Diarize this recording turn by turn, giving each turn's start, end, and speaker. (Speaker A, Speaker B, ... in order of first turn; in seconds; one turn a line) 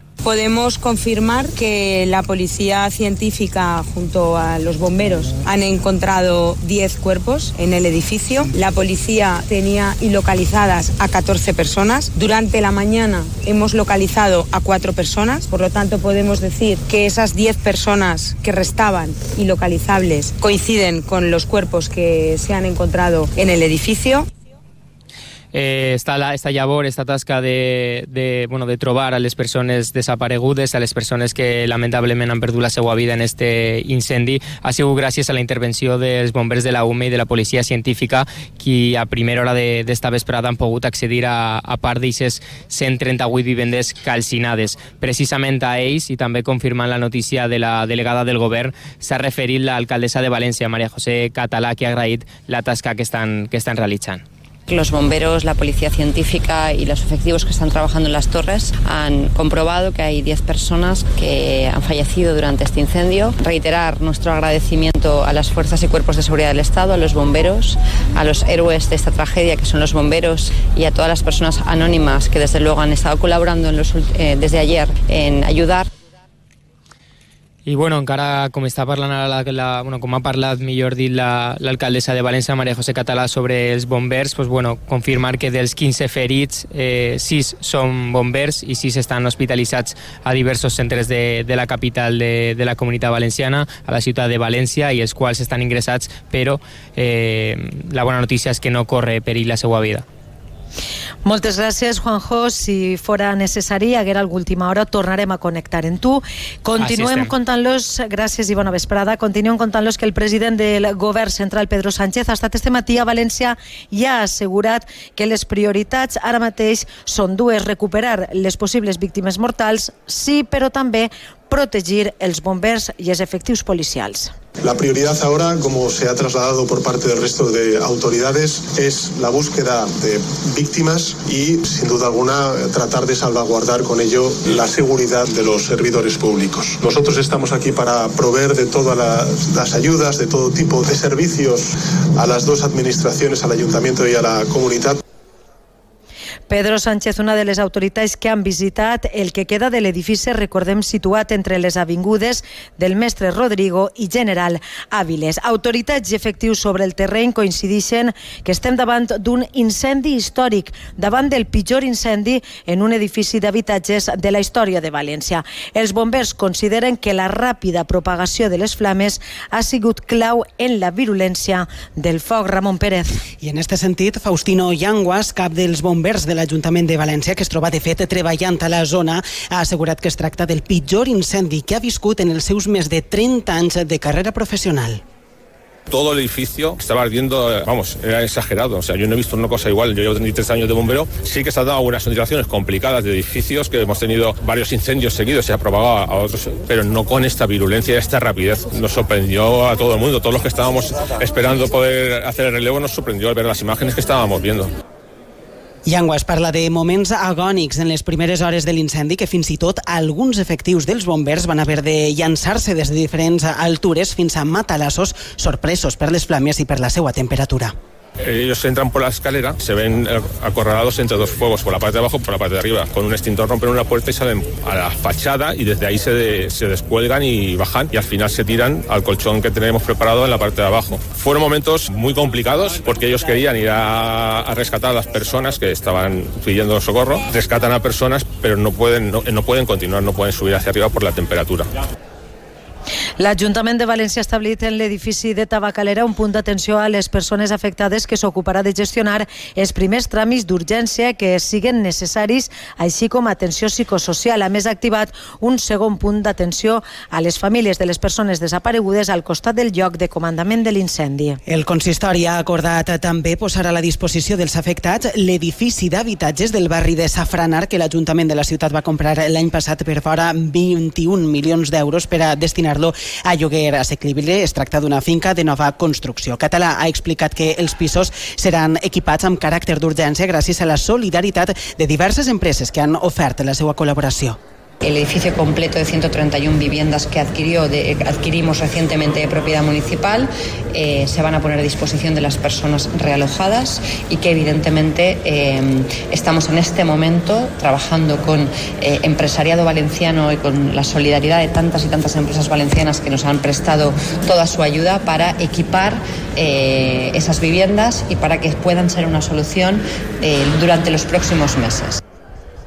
Speaker A: 0.2-24.2
Speaker B: 25.5-54.2
Speaker C: 54.7-75.9
Speaker B: 77.7-100.0
Speaker D: 101.2-124.3
Speaker B: 106.8-107.3
Speaker E: 124.6-141.6
Speaker E: 142.2-145.0
Speaker D: 146.5-173.2
Speaker F: 173.4-185.0
Speaker G: 185.9-204.7
Speaker F: 205.8-217.7
Speaker G: 218.2-241.7
Speaker D: 243.2-261.4
Speaker F: 261.5-284.4
Speaker C: 284.8-312.0